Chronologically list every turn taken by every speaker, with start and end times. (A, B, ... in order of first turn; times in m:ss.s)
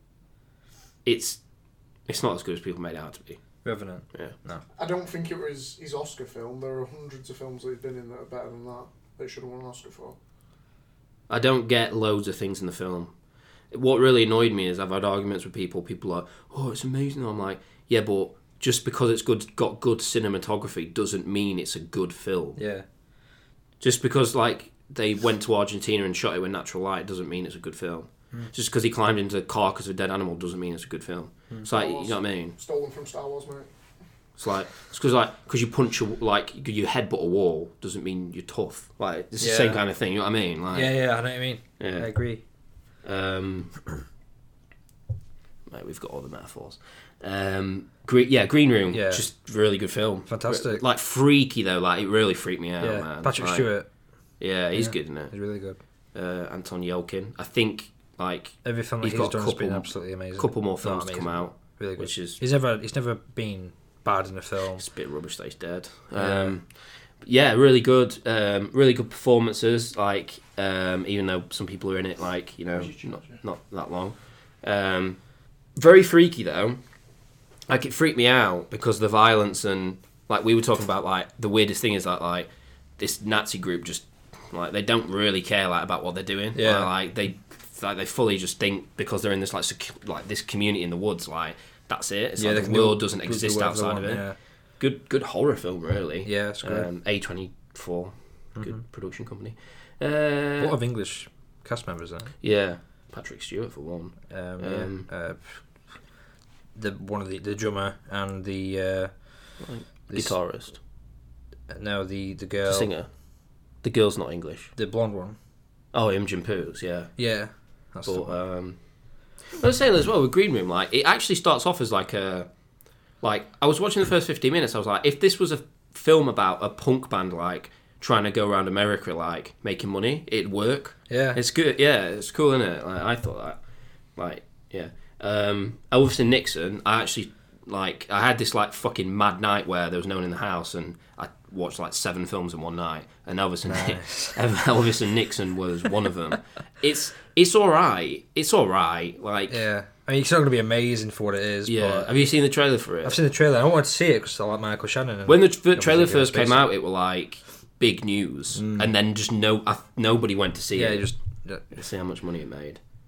0:01.0-0:01.4 A
0:02.1-0:03.4 A
0:03.6-0:04.6 B
0:04.8-0:10.2 C
0:11.3-0:13.1 A
0:13.7-0:22.6 A
0:22.6-0:22.8 B
0:23.8-0:32.5 A
0:31.7-0:33.7 C
0:34.4-0:41.0 A
0:39.4-0:39.8 B
0:40.7-0:42.4 B
0:41.8-0:42.1 A
0:43.0-0:43.8 A
0:45.7-0:53.7 A
0:48.9-0:49.2 B
0:50.3-0:50.8 B
0:52.8-0:53.9 B
0:54.4-0:55.3 A
0:54.7-0:55.8 B
0:56.1-1:02.4 A
0:58.6-1:04.8 B
1:04.8-1:15.2 A
1:06.1-1:06.6 B
1:12.8-1:13.4 C
1:15.8-1:16.8 A
1:17.7-1:34.2 A
1:26.5-1:26.9 B
1:32.4-1:34.4 B
1:34.8-1:40.8 A
1:36.2-1:36.9 B
1:40.6-1:42.3 B
1:42.4-1:45.1 A
1:44.3-1:45.6 B
1:46.7-1:49.2 B
1:49.6-1:50.8 A
1:50.1-1:50.3 B
1:51.7-1:52.9 B
1:52.6-1:53.1 A
1:53.8-1:54.7 A
1:54.8-1:55.4 B
1:55.9-1:57.1 A
1:57.2-1:58.3 B
1:58.0-1:58.8 A
1:59.6-2:02.5 A
2:03.2-2:13.6 A
2:11.1-2:11.4 B
2:14.2-2:29.6 A
2:23.7-2:24.4 B
2:29.5-2:32.1 B
2:31.6-2:33.2 A
2:33.0-2:36.7 B
2:35.2-2:41.1 A
2:38.5-2:38.9 B
2:40.7-2:41.6 B
2:41.7-2:42.8 A